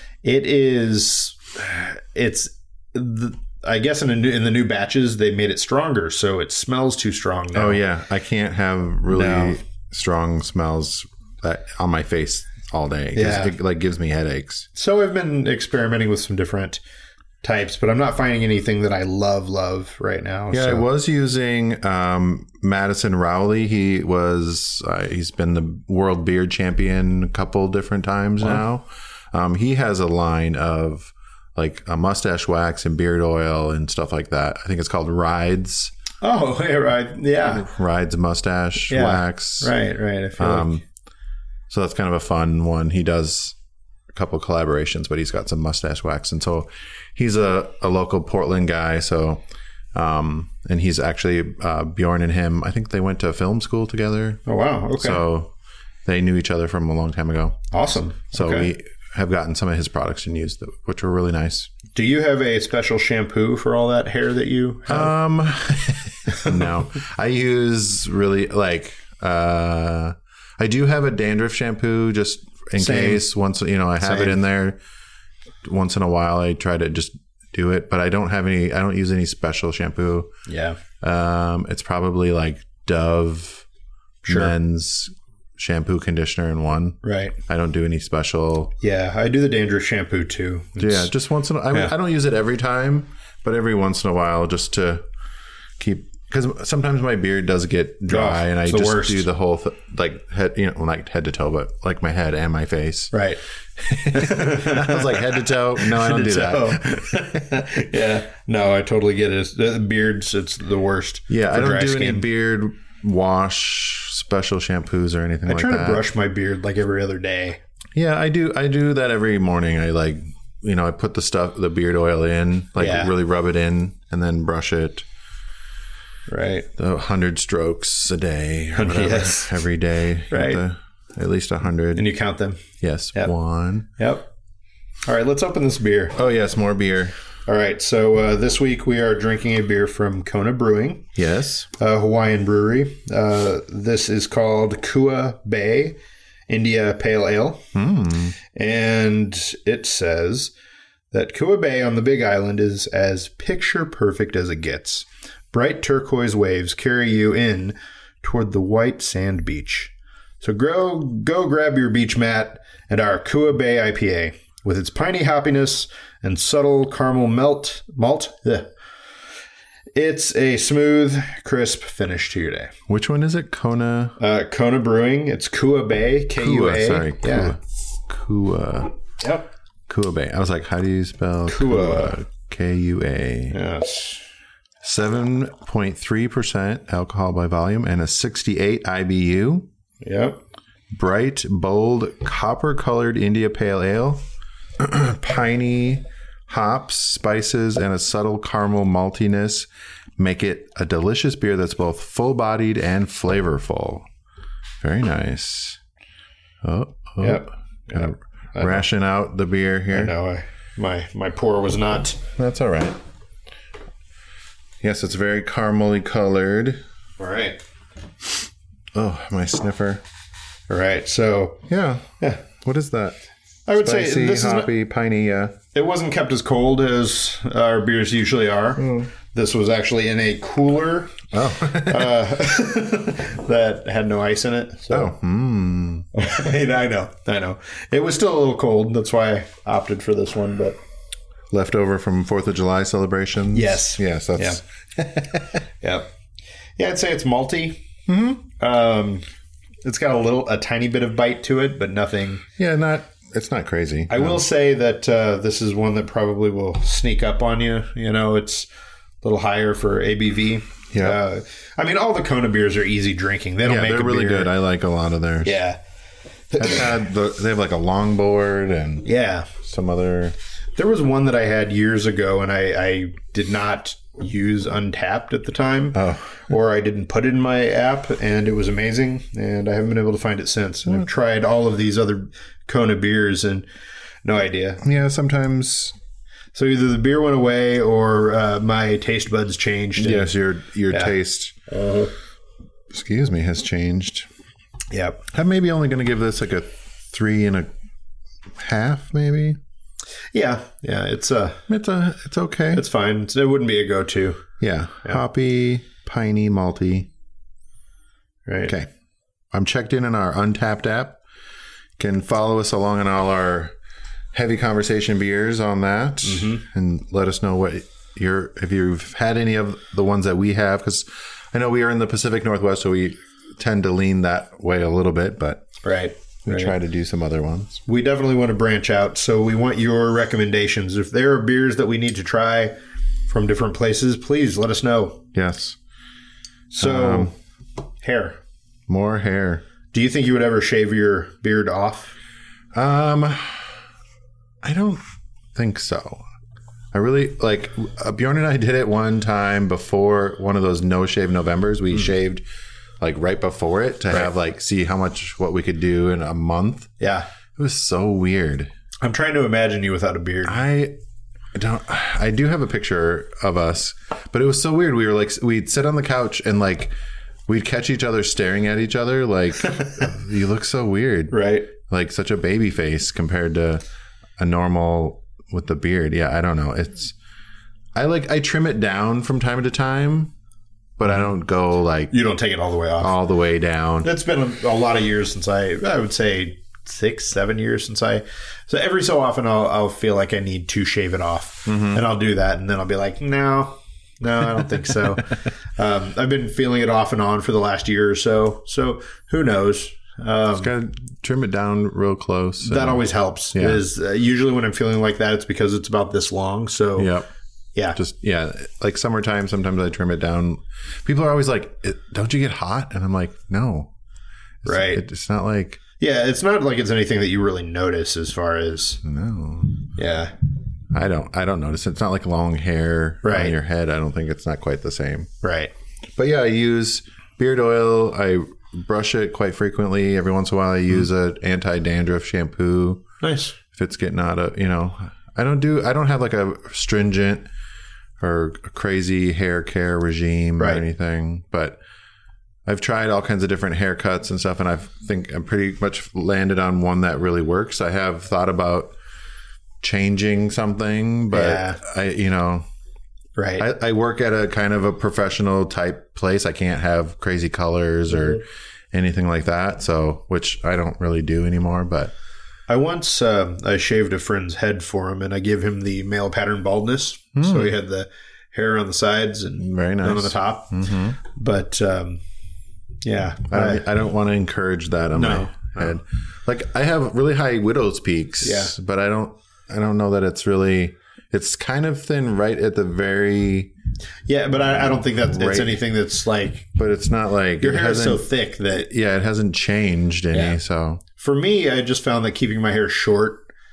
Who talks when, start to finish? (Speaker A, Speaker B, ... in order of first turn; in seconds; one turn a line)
Speaker A: 0.2-7.8
Speaker B: 7.5-14.7
Speaker A: 9.1-9.6
Speaker A: 13.2-13.6
Speaker A: 14.8-16.8
Speaker A: 17.4-20.9
Speaker B: 20.5-35.9
Speaker A: 36.2-37.7
Speaker B: 37.5-39.7
Speaker A: 38.9-40.7
Speaker B: 40.4-40.8
Speaker B: 41.7-43.6
Speaker B: 44.1-49.4
Speaker B: 50.0-54.4
Speaker A: 54.5-55.2
Speaker B: 55.0-55.5
Speaker B: 56.0-57.6
Speaker A: 57.7-58.7
Speaker B: 58.3-61.7
Speaker A: 62.0-65.1
Speaker B: 64.9-74.8
Speaker A: 72.8-73.3
Speaker A: 74.0-74.4
Speaker B: 75.6-80.3
Speaker A: 80.5-80.8
Speaker B: 81.0-83.7
Speaker A: 84.2-84.5
Speaker B: 84.3-88.7
Speaker A: 87.0-87.4
Speaker A: 88.8-91.1
Speaker B: 90.8-95.0
Speaker B: 95.8-103.2
Speaker A: 98.1-99.3
Speaker A: 103.1-103.4
Speaker B: 103.8-106.8
Speaker A: 104.0-112.2
Speaker B: 111.3-116.1
Speaker A: 115.5-117.6
Speaker B: 118.0-125.0
Speaker A: 122.8-123.1
Speaker A: 126.3-126.7
Speaker B: 126.8-132.1
Speaker A: 128.8-129.6
Speaker A: 130.3-130.6
Speaker A: 132.0-132.6
Speaker B: 132.8-133.9
Speaker A: 134.0-134.3
Speaker A: 135.1-136.2
Speaker B: 136.2-137.2
Speaker A: 137.5-141.1
Speaker B: 141.2-141.7
Speaker A: 141.8-146.0
Speaker A: 146.5-147.6
Speaker B: 147.8-148.3
Speaker A: 148.5-150.5
Speaker A: 151.1-168.7
Speaker A: 169.9-172.7
Speaker B: 172.9-174.2
Speaker A: 174.2-177.6
Speaker B: 176.4-178.9
Speaker A: 179.2-179.5
Speaker B: 179.9-183.6
Speaker A: 181.5-182.2
Speaker A: 183.5-184.2
Speaker B: 184.8-189.7
Speaker A: 190.0-190.4
Speaker B: 190.9-194.2
Speaker B: 194.8-204.1
Speaker B: 204.8-205.8
Speaker B: 206.6-210.1
Speaker A: 207.2-208.9
Speaker A: 209.9-212.2
Speaker B: 212.4-213.0
Speaker B: 214.8-216.8
Speaker A: 217.2-217.6
Speaker B: 218.9-220.0
Speaker A: 220.7-221.6
Speaker B: 221.7-222.1
Speaker A: 222.2-222.4
Speaker B: 222.6-223.2
Speaker A: 223.7-224.7
Speaker B: 223.8-225.6
Speaker A: 225.7-235.1
Speaker B: 228.8-229.1
Speaker B: 231.3-232.2
Speaker B: 234.9-236.1
Speaker A: 236.1-240.8
Speaker B: 241.5-245.3
Speaker A: 243.5-245.1
Speaker A: 245.8-246.1
Speaker A: 246.8-247.8
Speaker B: 248.1-248.4
Speaker A: 248.6-249.2
Speaker A: 249.8-252.4
Speaker B: 252.6-254.4
Speaker A: 254.1-258.7
Speaker A: 259.2-264.5
Speaker B: 260.9-261.2
Speaker B: 263.6-265.6
Speaker A: 265.4-265.8
Speaker A: 266.5-267.0
Speaker B: 266.6-269.1
Speaker A: 269.0-269.5
Speaker B: 269.6-270.4
Speaker A: 270.8-283.7
Speaker B: 275.9-276.4
Speaker A: 284.2-284.8
Speaker B: 284.8-285.9
Speaker A: 286.5-290.3
Speaker B: 290.0-291.6
Speaker A: 291.7-292.1
Speaker B: 292.9-294.3
Speaker A: 294.9-295.2
Speaker B: 295.3-297.7
Speaker B: 298.6-299.6
Speaker A: 300.3-301.6
Speaker B: 301.7-302.8
Speaker A: 302.7-304.4
Speaker B: 304.6-307.1
Speaker A: 308.5-308.7
Speaker B: 309.5-311.2
Speaker B: 312.0-313.7
Speaker B: 314.3-325.6
Speaker A: 316.2-316.6
Speaker A: 325.8-326.7
Speaker B: 326.5-327.8
Speaker A: 327.9-332.8
Speaker A: 333.3-335.2
Speaker B: 335.3-335.8
Speaker A: 336.7-337.4
Speaker B: 336.8-337.3
Speaker A: 338.0-338.4
Speaker B: 338.9-339.6
Speaker A: 339.9-342.1
Speaker B: 342.7-343.7
Speaker B: 344.6-345.0
Speaker B: 345.6-346.2
Speaker B: 346.9-352.4
Speaker B: 353.0-356.9
Speaker A: 357.0-357.3
Speaker B: 357.6-358.7
Speaker A: 359.0-360.6
Speaker B: 360.4-361.0
Speaker B: 361.5-366.9
Speaker B: 367.5-373.8
Speaker A: 369.6-370.1
Speaker A: 371.3-371.7
Speaker B: 374.4-377.1
Speaker B: 377.9-380.3
Speaker B: 381.0-382.1
Speaker A: 382.1-383.2
Speaker B: 383.0-384.1
Speaker A: 384.0-400.7
Speaker B: 391.7-392.0
Speaker B: 400.5-403.0
Speaker A: 402.6-407.1
Speaker B: 403.5-403.8
Speaker B: 407.0-407.3
Speaker B: 407.9-413.9
Speaker B: 414.6-415.8
Speaker A: 414.7-415.0
Speaker A: 416.0-419.0
Speaker B: 419.0-419.8
Speaker A: 420.0-420.3
Speaker B: 420.9-425.3
Speaker A: 423.2-423.6
Speaker A: 425.4-425.7
Speaker B: 426.2-433.0
Speaker A: 433.2-433.6
Speaker B: 433.7-437.5
Speaker B: 438.2-441.8
Speaker B: 442.7-448.9
Speaker B: 449.8-452.7
Speaker A: 451.3-451.8
Speaker A: 453.4-453.7
Speaker B: 453.6-462.1
Speaker A: 462.7-472.2
Speaker B: 467.4-467.7
Speaker B: 469.6-471.2
Speaker A: 473.0-473.9
Speaker B: 473.5-483.7
Speaker A: 475.1-476.0
Speaker A: 478.4-478.7
Speaker A: 484.3-486.7
Speaker B: 484.8-485.8
Speaker B: 486.8-491.0
Speaker A: 487.6-488.9
Speaker A: 490.3-490.6
Speaker A: 491.2-493.5